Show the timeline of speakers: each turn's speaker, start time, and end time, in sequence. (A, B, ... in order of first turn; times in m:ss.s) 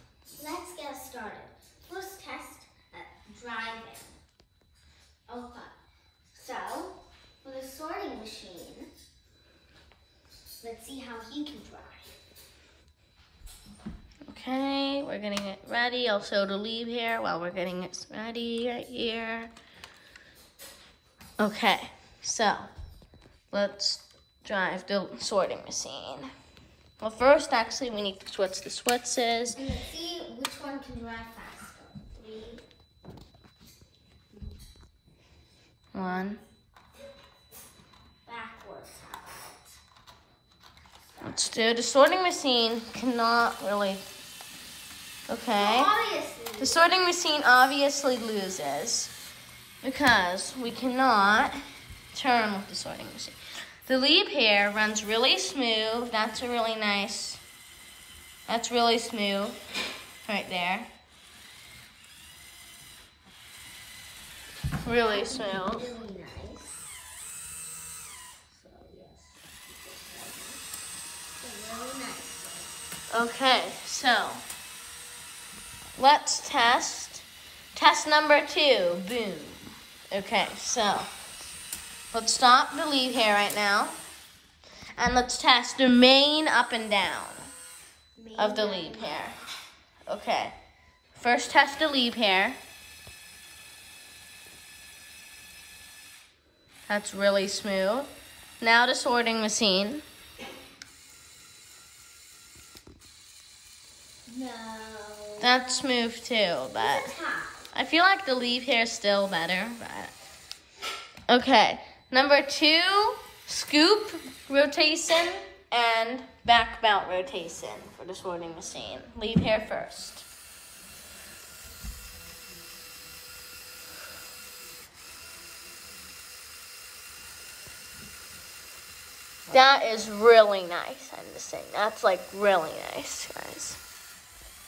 0:00.4-0:04.2 A
0:05.3-0:05.7 A
0:06.3-0:08.9 A
0:10.6-0:12.1 A
0:14.2-0:19.5 B
0:21.4-0:22.7 B
0:23.5-0:26.3 B
0:27.0-0:29.6 B
0:29.5-0:32.6 A
0:35.9-0:36.4 B
0:38.2-0:39.7 A
0:41.1-0:41.5 A
0:41.2-0:44.0 B
0:45.3-0:45.9 B
0:45.6-0:46.8 A
0:46.6-0:49.1 B
0:49.8-0:51.6 B
0:52.1-0:57.4 B
0:58.5-0:59.6 B
1:00.2-1:00.9 B
1:04.8-1:05.9 B
1:05.0-1:06.8 A
1:08.5-1:10.6 A
1:11.4-1:12.7 A
1:13.1-1:14.4 B
1:16.0-1:21.1 B
1:22.1-1:24.0 B
1:25.0-1:27.5 B
1:28.2-1:29.3 A
1:28.4-1:29.4 B
1:30.1-1:30.5 B
1:31.1-1:32.6 B
1:36.9-1:38.1 B
1:38.6-1:40.0 B
1:44.3-1:45.9 A
1:45.4-1:47.2 B
1:46.8-1:47.7 A
1:47.7-1:50.1 B
1:51.3-2:00.2 B
2:09.5-2:13.8 B